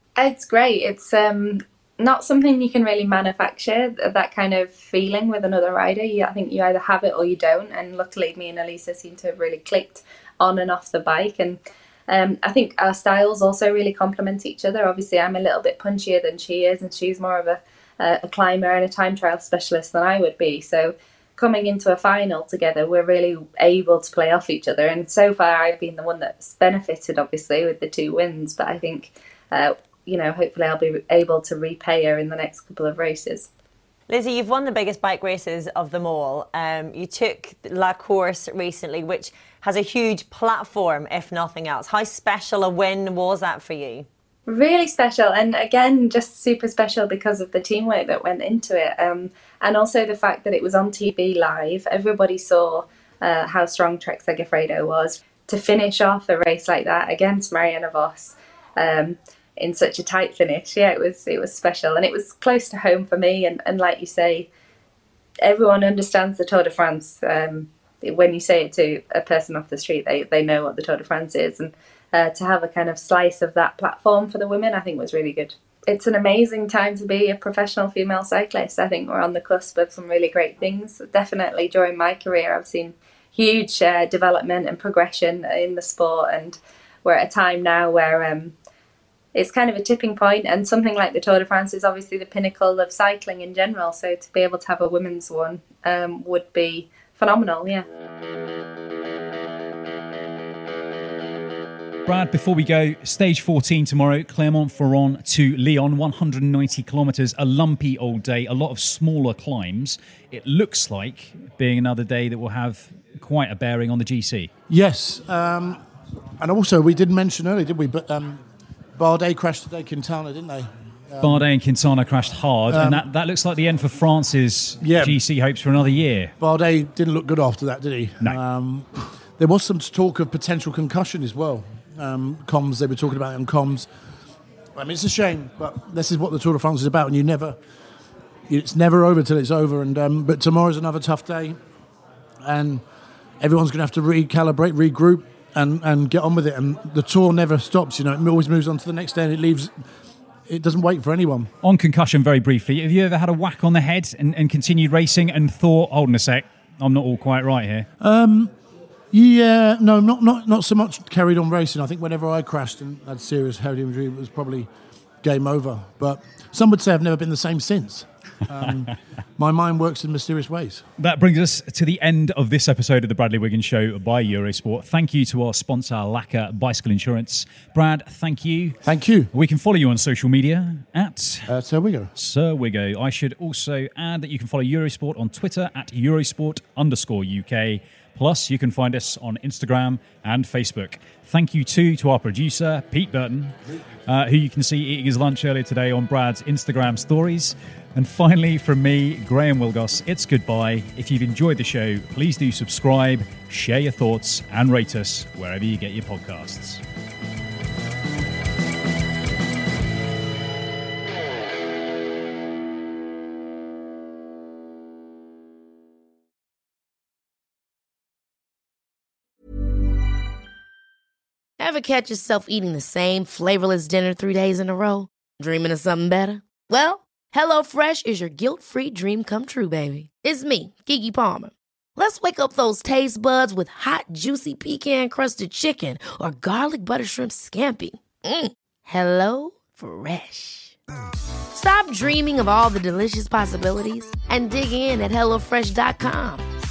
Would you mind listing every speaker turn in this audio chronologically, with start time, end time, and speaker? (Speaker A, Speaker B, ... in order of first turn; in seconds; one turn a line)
Speaker A: 0.2-33.5
Speaker B: 34.1-44.1
Speaker A: 44.5-64.5
Speaker A: 65.4-88.5
Speaker A: 89.3-97.8
Speaker C: 102.1-114.5
Speaker D: 114.7-115.8
Speaker D: 116.4-118.4
Speaker D: 119.0-121.5
Speaker C: 121.2-126.3
Speaker D: 122.7-123.1
Speaker D: 124.8-125.2
Speaker D: 126.4-133.9
Speaker D: 134.8-137.6
Speaker D: 138.5-141.6
Speaker D: 142.4-142.8
Speaker D: 143.4-149.7
Speaker D: 150.5-151.5
Speaker C: 151.6-157.9
Speaker D: 158.0-158.5
Speaker D: 159.1-164.7
Speaker D: 165.2-170.8
Speaker C: 171.0-178.8
Speaker D: 178.8-179.3
Speaker C: 179.3-181.5
Speaker D: 181.5-182.1
Speaker C: 182.2-206.8
Speaker E: 221.6-240.8
Speaker E: 241.5-246.4